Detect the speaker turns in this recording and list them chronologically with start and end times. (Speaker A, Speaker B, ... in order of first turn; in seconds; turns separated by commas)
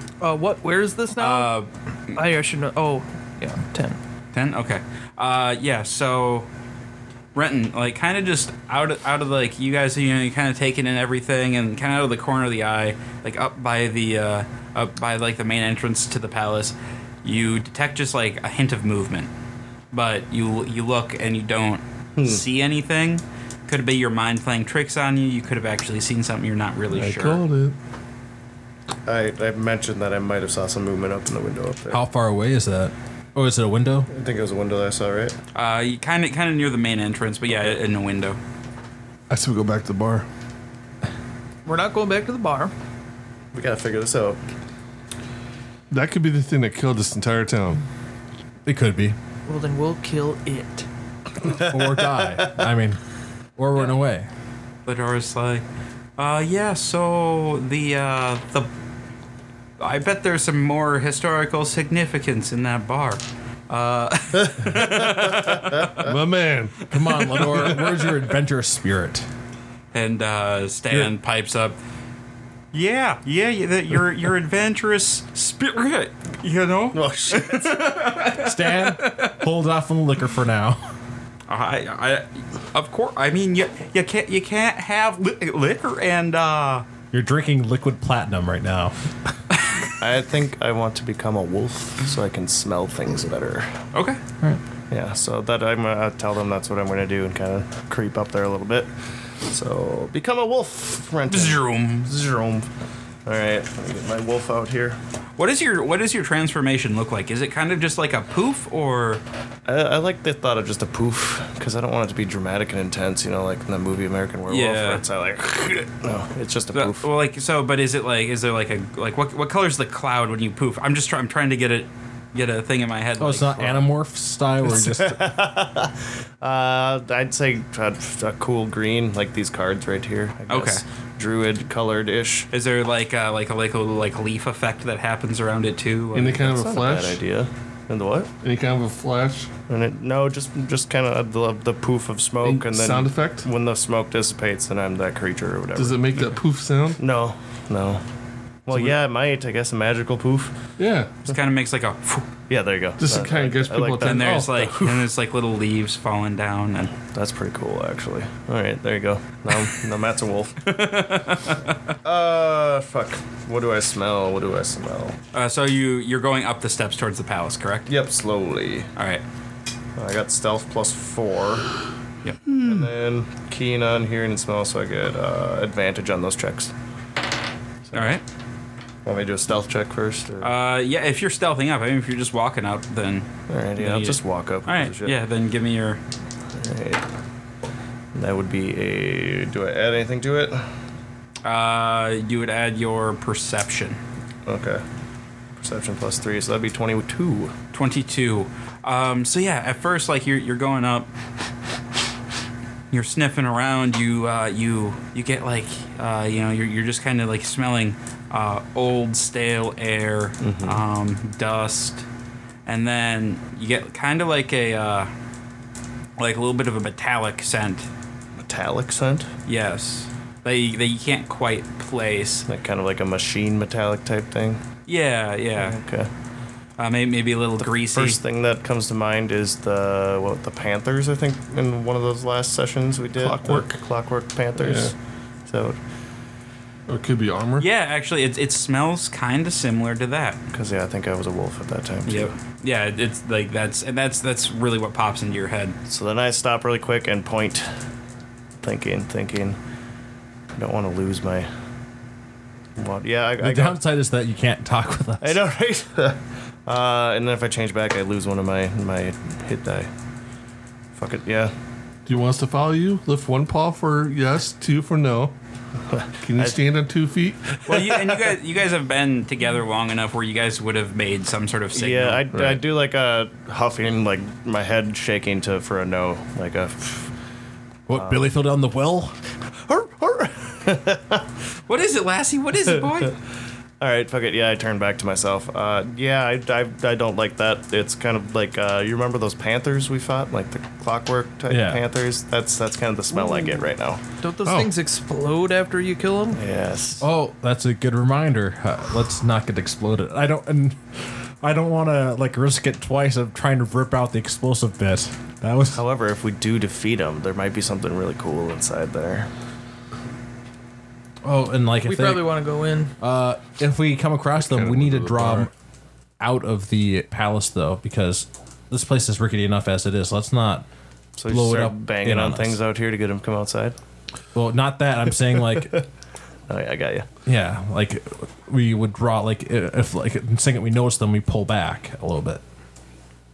Speaker A: 0.2-1.5, Speaker B: 1.1-2.2, Speaker A: 2.1-4.0, Speaker B: 4.3-6.5, Speaker B: 7.3-19.3, Speaker B: 19.9-27.4, Speaker C: 22.2-22.4, Speaker D: 26.9-27.8, Speaker C: 29.1-32.0, Speaker E: 31.9-34.1, Speaker C: 34.1-35.4, Speaker B: 35.5-38.4, Speaker D: 39.3-40.3, Speaker A: 41.6-42.7, Speaker C: 43.5-44.4, Speaker D: 45.9-47.8, Speaker E: 48.6-49.1, Speaker A: 49.5-50.9, Speaker C: 51.4-52.5, Speaker E: 51.4-53.0, Speaker E: 53.6-54.3, Speaker B: 54.9-55.6, Speaker B: 56.2-58.7, Speaker B: 59.8-66.1, Speaker D: 66.0-67.6, Speaker E: 66.9-69.2, Speaker B: 69.9-71.8, Speaker B: 72.7-79.4, Speaker C: 76.9-78.1, Speaker E: 78.3-80.8, Speaker B: 81.5-86.8, Speaker E: 87.1-88.9, Speaker C: 90.0-93.7, Speaker B: 93.9-94.2, Speaker C: 94.9-98.9, Speaker C: 99.5-102.7, Speaker B: 101.3-102.1, Speaker C: 103.2-105.0, Speaker B: 105.4-109.2, Speaker C: 109.7-117.1, Speaker B: 114.5-115.0, Speaker B: 116.7-123.9, Speaker E: 123.2-125.2, Speaker C: 124.7-132.5, Speaker B: 130.5-130.8, Speaker B: 132.5-136.5, Speaker D: 136.1-137.2, Speaker C: 136.4-138.3, Speaker D: 138.4-139.5, Speaker C: 139.7-146.2, Speaker D: 142.4-143.5, Speaker D: 145.7-147.0, Speaker C: 147.0-148.0, Speaker C: 148.7-150.6, Speaker D: 150.8-151.2, Speaker B: 151.2-152.3, Speaker C: 152.5-154.6, Speaker D: 153.0-154.9, Speaker B: 154.0-156.9, Speaker C: 157.1-160.7, Speaker B: 160.6-161.7, Speaker C: 162.0-165.2, Speaker B: 165.3-167.9, Speaker C: 167.9-168.9, Speaker B: 168.9-169.2, Speaker C: 169.9-171.7, Speaker C: 172.5-176.7, Speaker B: 177.9-178.2, Speaker C: 179.0-180.5, Speaker B: 180.4-186.0, Speaker C: 183.5-185.2, Speaker C: 186.6-187.0, Speaker C: 188.1-190.6, Speaker B: 191.4-194.0, Speaker C: 194.4-194.8, Speaker C: 195.6-197.5, Speaker B: 197.7-201.1, Speaker B: 202.9-212.0, Speaker C: 210.4-210.8, Speaker B: 212.7-215.1, Speaker B: 216.2-217.9, Speaker C: 218.4-219.3, Speaker B: 219.5-222.5, Speaker C: 222.5-224.6, Speaker B: 224.9-225.8, Speaker C: 225.6-226.1, Speaker B: 226.8-228.2, Speaker C: 227.6-234.9, Speaker D: 233.2-233.8, Speaker D: 234.6-234.9, Speaker C: 235.5-235.8, Speaker D: 236.9-237.7, Speaker B: 237.6-240.4, Speaker C: 240.5-242.3, Speaker B: 242.1-245.8, Speaker C: 245.9-247.7, Speaker C: 248.6-249.6, Speaker C: 250.6-251.5, Speaker C: 252.8-253.8, Speaker E: 253.4-255.4, Speaker C: 255.2-259.9, Speaker C: 260.9-261.5, Speaker D: 262.1-265.3, Speaker C: 265.9-266.6, Speaker D: 266.2-267.6, Speaker C: 267.6-268.3, Speaker B: 267.6-272.3, Speaker C: 271.7-277.1, Speaker D: 272.3-272.6, Speaker E: 277.9-279.2, Speaker C: 277.9-278.2, Speaker C: 279.6-281.2, Speaker B: 281.7-283.1, Speaker C: 283.8-294.0, Speaker E: 291.5-291.8, Speaker A: 293.1-293.6, Speaker A: 294.2-296.4, Speaker C: 296.3-297.0, Speaker E: 297.0-305.8, Speaker C: 305.7-309.3, Speaker E: 311.2-312.3, Speaker A: 311.8-312.9, Speaker E: 313.0-315.5, Speaker D: 314.4-315.5, Speaker E: 316.2-320.6, Speaker C: 321.2-323.8, Speaker E: 321.3-322.6, Speaker E: 324.3-325.8, Speaker C: 325.6-325.8, Speaker C: 326.5-327.1, Speaker E: 327.2-332.4